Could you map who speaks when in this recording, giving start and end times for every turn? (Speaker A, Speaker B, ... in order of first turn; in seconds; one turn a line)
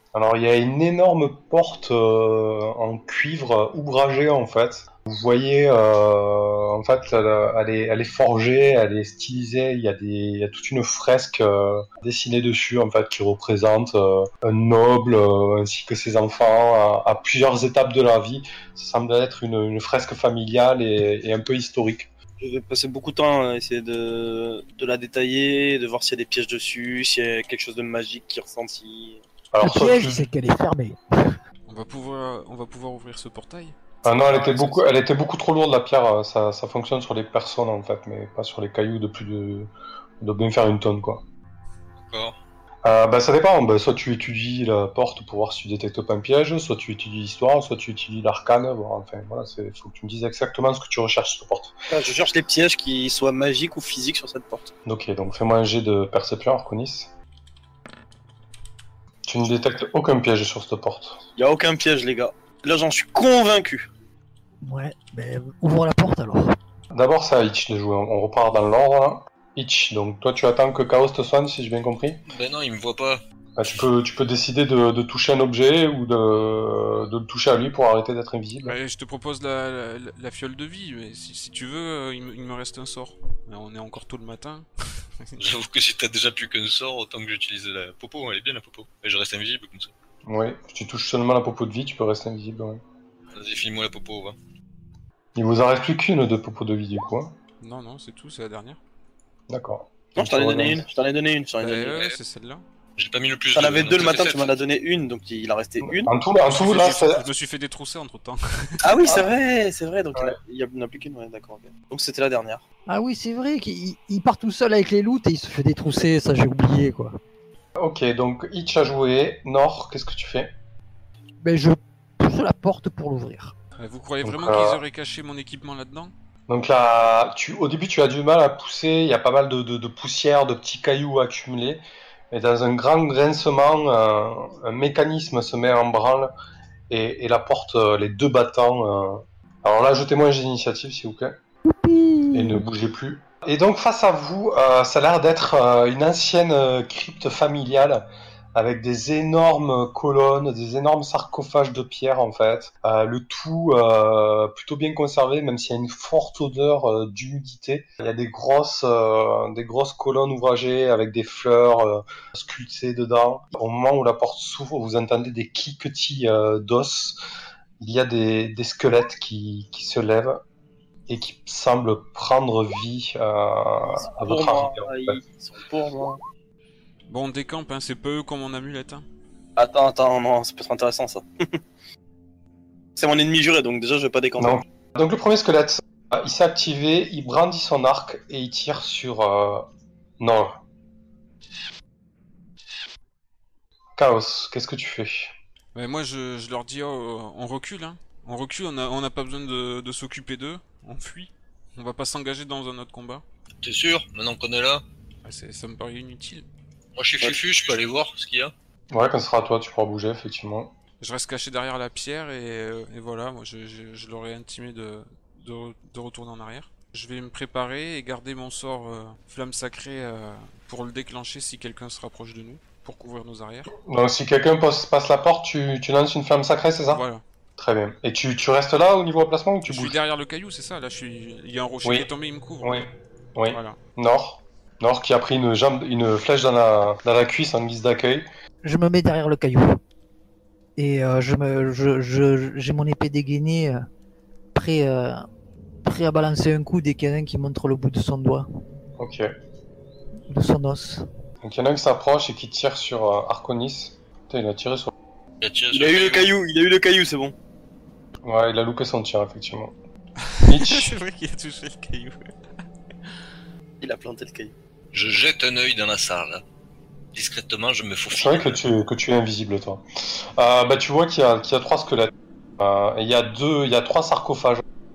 Speaker A: 0.1-22.1
Speaker B: 22.4-29.2
Speaker A: 29.5-30.2
Speaker C: 29.6-31.4
Speaker D: 31.7-34.9
Speaker A: 34.0-41.2
Speaker E: 42.0-42.4
Speaker A: 42.8-51.8
Speaker B: 51.9-54.7
Speaker A: 54.8-57.1
Speaker A: 59.2-61.2
Speaker B: 61.4-63.9
Speaker C: 64.6-66.5
Speaker A: 66.9-72.2
Speaker E: 72.3-73.8
Speaker A: 73.6-78.8
Speaker D: 78.6-84.7
Speaker E: 85.4-89.9
Speaker A: 90.2-92.8
Speaker E: 93.3-94.3
Speaker A: 95.3-97.3
Speaker D: 97.6-98.8
Speaker A: 99.5-100.8
Speaker B: 100.2-102.2
Speaker D: 101.6-102.6
Speaker E: 103.0-104.6
Speaker B: 103.5-106.1
Speaker A: 105.8-107.2
Speaker D: 106.4-109.0
Speaker B: 108.8-112.6
Speaker C: 112.9-117.2
Speaker A: 117.8-120.5
Speaker C: 121.4-123.5
Speaker D: 123.8-126.1
Speaker A: 124.2-124.8
Speaker A: 126.5-136.3
Speaker A: 136.9-141.4
Speaker C: 141.7-142.6
Speaker A: 142.3-167.2
Speaker A: 167.8-170.4
Speaker A: 171.1-175.2
Speaker B: 174.2-176.2
Speaker D: 177.1-179.0
Speaker B: 179.6-181.6
Speaker B: 182.9-184.6
Speaker A: 184.4-190.6
Speaker A: 194.0-195.3
Speaker D: 195.7-203.2
Speaker E: 203.6-204.8
Speaker D: 205.2-206.4
Speaker E: 206.9-208.5
Speaker A: 208.9-210.7
Speaker D: 211.0-223.7
Speaker A: 223.8-227.0
Speaker D: 226.9-227.2
Speaker A: 227.6-230.0
Speaker D: 229.7-232.8
Speaker A: 232.6-238.3
Speaker D: 233.5-233.8
Speaker C: 238.6-239.8
Speaker C: 240.8-243.8
Speaker C: 244.5-245.2
Speaker C: 245.8-248.5
Speaker A: 249.0-249.3
Speaker C: 250.3-251.1
Speaker A: 251.4-254.9
Speaker E: 255.4-256.3
Speaker B: 255.7-257.3
Speaker A: 258.2-259.7
Speaker D: 260.3-262.3
Speaker A: 260.5-261.0
Speaker B: 263.8-264.5
Speaker E: 264.9-266.4
Speaker E: 267.1-268.6
Speaker A: 268.1-274.6